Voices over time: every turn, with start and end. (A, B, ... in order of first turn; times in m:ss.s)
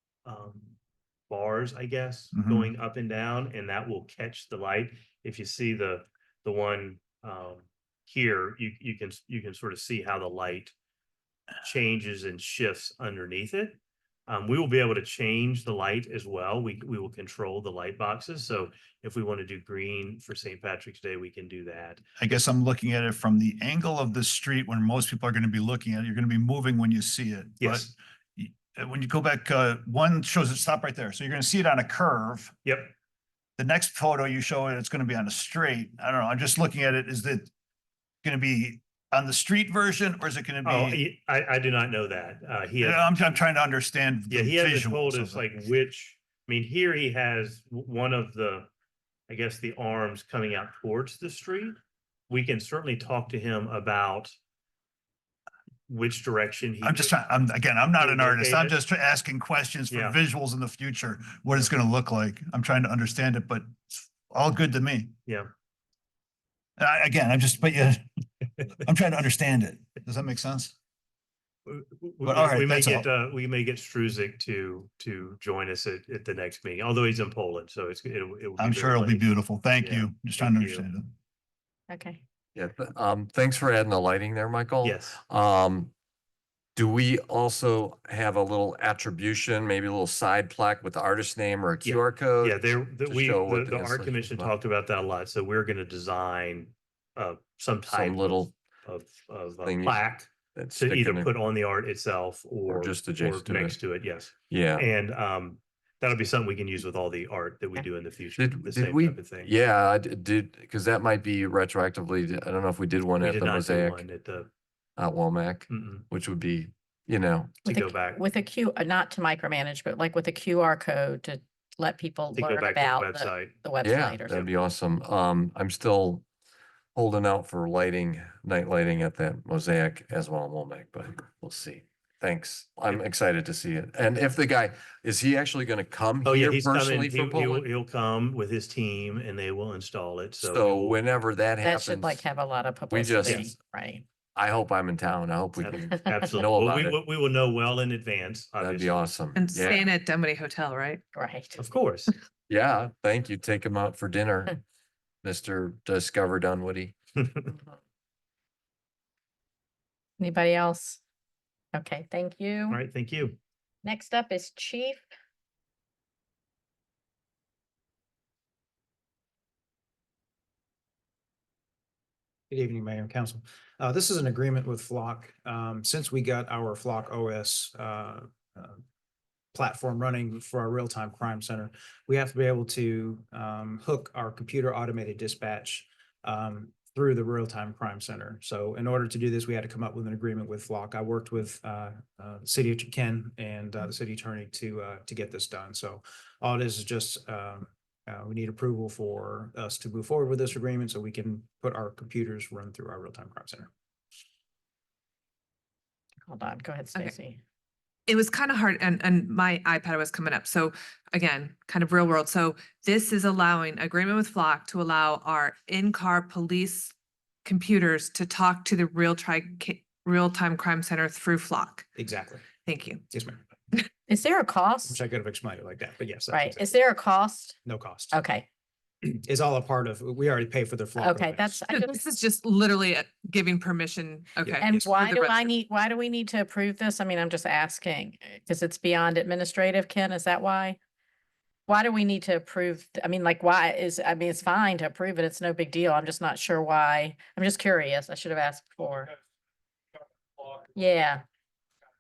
0:00.2-0:00.8 A
0:01.3-0:10.7 A
0:02.3-0:02.7 B
0:11.6-0:22.4 A
0:22.2-0:32.5 B
0:27.6-0:27.9 A
0:32.6-0:32.9 A
0:33.6-0:37.5 B
0:38.2-0:41.0 B
0:40.6-0:43.4 A
0:42.8-0:45.4 B
0:44.3-0:48.7 A
0:49.3-0:51.8 A
0:52.3-0:54.4 A
0:55.9-0:57.3 A
0:56.8-1:05.2 B
0:58.0-0:58.8 A
0:59.9-1:00.2 A
1:06.8-1:08.0 B
1:08.8-1:10.7 B
1:11.7-1:20.9 A
1:12.2-1:13.1 B
1:18.6-1:21.1 B
1:21.9-1:22.2 C
1:22.6-1:25.9 D
1:24.8-1:25.2 A
1:26.8-1:34.5 D
1:31.8-1:49.5 A
1:37.9-1:38.5 D
1:39.6-1:40.0 D
1:40.6-1:41.3 D
1:42.7-1:43.8 D
1:44.5-1:44.9 D
1:48.4-1:54.0 D
1:53.2-1:54.5 A
1:55.0-1:57.6 D
1:55.7-1:56.1 A
1:57.6-1:58.2 A
1:57.6-2:04.4 C
2:02.4-2:03.6 A
2:03.8-2:06.2 D
2:07.0-2:17.7 D
2:16.2-2:21.0 A
2:20.4-2:22.2 D
2:21.6-2:24.0 C
2:22.9-2:23.5 D
2:24.4-2:27.0 D
2:25.6-2:29.0 A
2:28.6-2:29.9 D
2:29.3-2:31.0 E
2:31.2-2:31.6 C
2:31.6-2:32.1 A
2:32.5-2:34.6 D
2:35.2-2:36.9 D
2:40.2-2:41.0 C
2:41.7-2:42.8 C
2:42.7-2:43.4 A
2:43.8-2:45.0 C
2:52.5-2:58.8 F
2:59.5-3:23.7 F
3:26.3-3:27.4 C
3:28.1-3:36.9 E
3:37.4-3:41.9 E
3:42.0-3:42.5 F
3:42.6-3:43.0 E
3:43.1-3:43.4 F
3:44.1-3:45.0 C
3:44.8-3:46.7 F
3:46.3-3:47.6 C
3:47.6-3:48.2 F
3:48.1-3:48.5 C
3:49.0-3:51.6 F
3:51.0-3:52.0 C
3:51.7-3:55.5 E
3:54.6-4:00.8 C
4:01.7-4:09.1 C
4:10.7-4:11.2 C